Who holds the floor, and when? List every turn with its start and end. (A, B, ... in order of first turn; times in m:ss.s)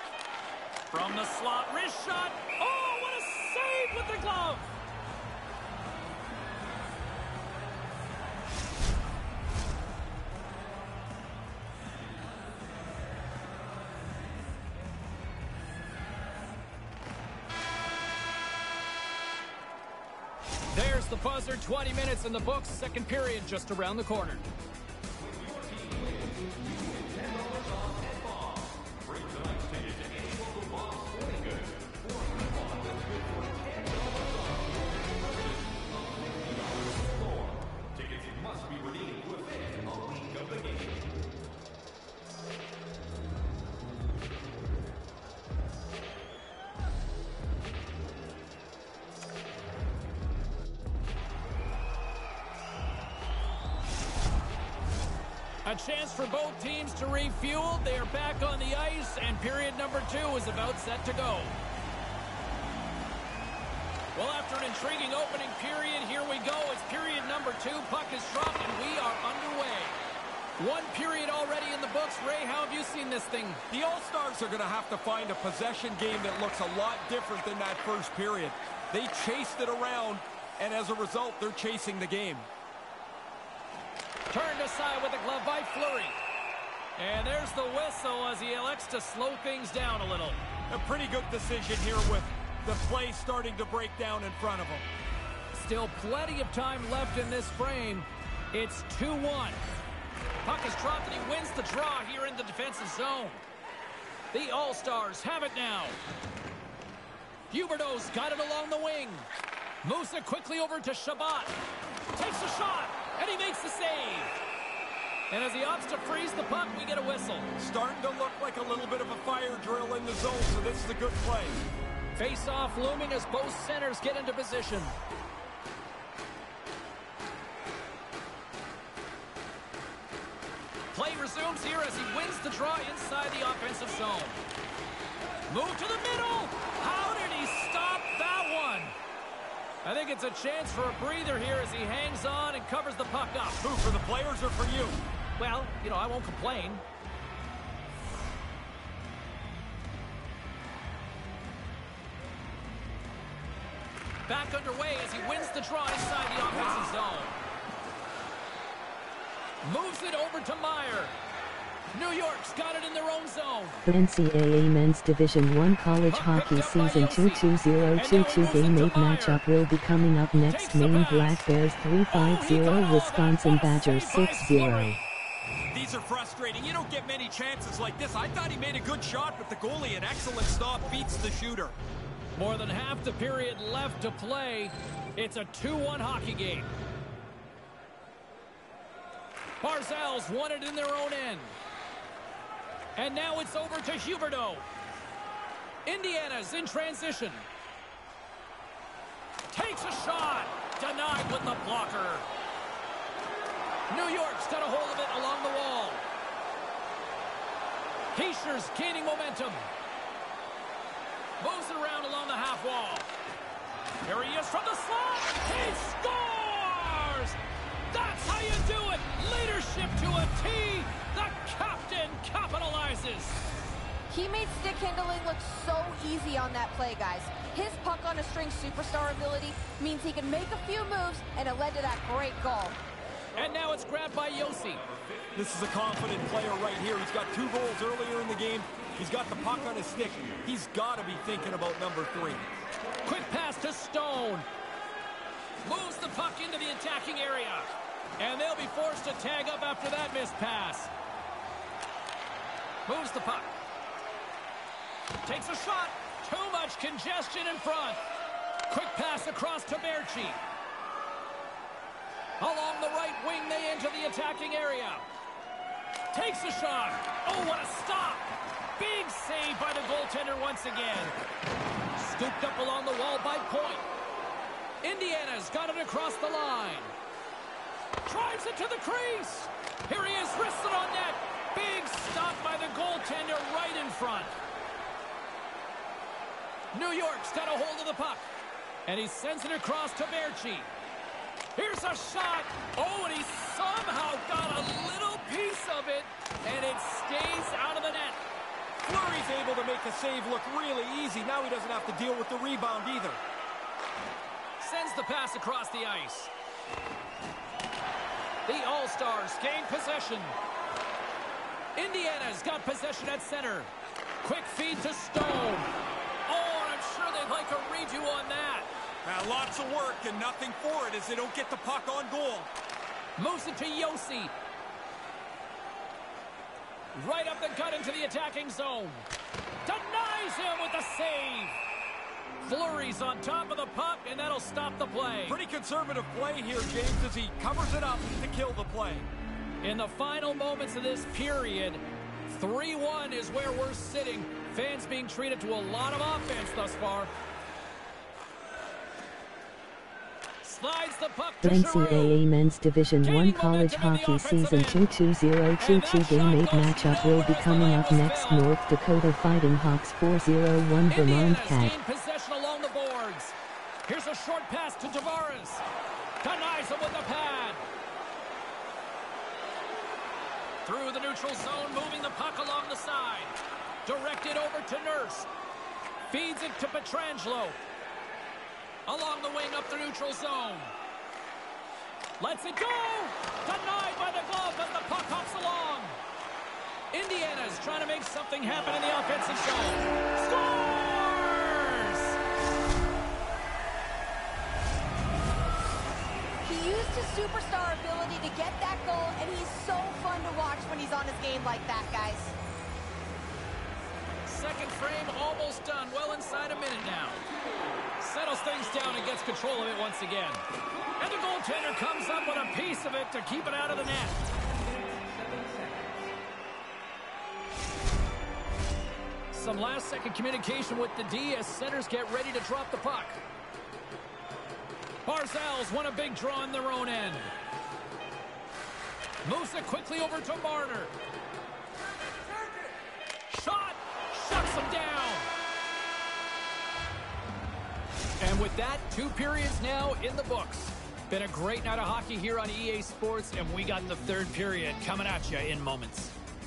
0:00.9-0:04.7 A
0:20.7-0:24.5 A
0:25.3-0:41.0 B
0:55.6-1:01.6 A
1:04.1-1:10.0 A
1:10.6-1:13.6 A
1:13.7-1:22.5 B
1:24.3-1:26.2 A
1:27.0-1:30.4 A
1:30.7-1:34.8 B
1:35.5-1:39.7 A
1:40.4-1:43.4 A
1:44.3-1:46.0 A
1:47.5-1:49.3 A
1:49.8-1:51.5 A
1:52.1-1:54.3 A
1:55.3-1:57.5 A
1:57.6-2:01.6 B
2:02.2-2:05.0 A
2:10.9-2:14.4 A
2:15.5-2:19.0 A
2:19.8-2:23.6 A
2:23.6-2:25.0 B
2:25.4-2:26.8 A
2:34.3-2:37.4 A
2:39.6-2:41.1 A
2:41.9-2:43.9 A
2:43.9-2:55.0 C
2:46.1-2:49.4 A
2:50.5-2:51.5 A
2:52.1-2:55.0 A
2:55.7-3:01.8 B
3:02.4-3:06.7 A
3:09.6-3:11.6 A
3:13.0-3:14.7 A
3:15.9-3:17.5 A
3:19.5-3:22.3 A
3:23.9-3:26.0 A
3:28.1-3:29.7 A
3:31.4-3:33.1 A
3:34.0-3:37.4 A
3:37.9-3:43.4 A
3:44.1-3:52.8 D
3:53.4-3:54.8 A
3:55.3-4:02.5 B
4:03.0-4:04.5 A
4:05.6-4:10.9 A
4:12.9-4:13.5 A
4:15.2-4:18.0 A
4:18.7-4:20.4 A
4:22.4-4:25.1 A
4:26.1-4:31.1 A
4:32.0-4:33.9 A
4:34.8-4:36.9 A
4:38.1-4:44.3 A
4:46.7-4:48.3 A
4:48.9-4:50.7 A
4:51.6-4:58.2 A
4:58.8-5:03.2 B
5:04.6-5:06.3 A
5:08.5-5:10.4 A
5:11.8-5:15.7 A
5:16.3-5:18.7 A
5:19.0-5:22.5 B
5:23.2-5:24.3 A
5:27.0-5:29.1 A
5:29.6-5:31.6 A
5:32.4-5:35.4 A
5:35.3-5:39.1 B
5:39.6-5:47.1 A
5:50.4-5:52.2 A
5:51.4-6:01.8 C
5:53.0-5:54.9 A
5:55.6-5:58.5 A
6:00.9-6:05.6 A
6:06.2-6:07.6 A
6:10.6-6:15.3 A
6:16.1-6:17.6 A
6:18.9-6:20.7 A
6:22.2-6:26.0 A
6:26.9-6:32.2 A
6:36.4-6:42.4 D
6:44.3-6:47.3 A
6:48.0-6:50.4 A
6:51.0-6:54.2 A
6:59.3-7:03.2 A
7:05.1-7:07.3 A
7:09.2-7:10.9 A
7:13.3-7:15.3 A
7:18.2-7:26.2 A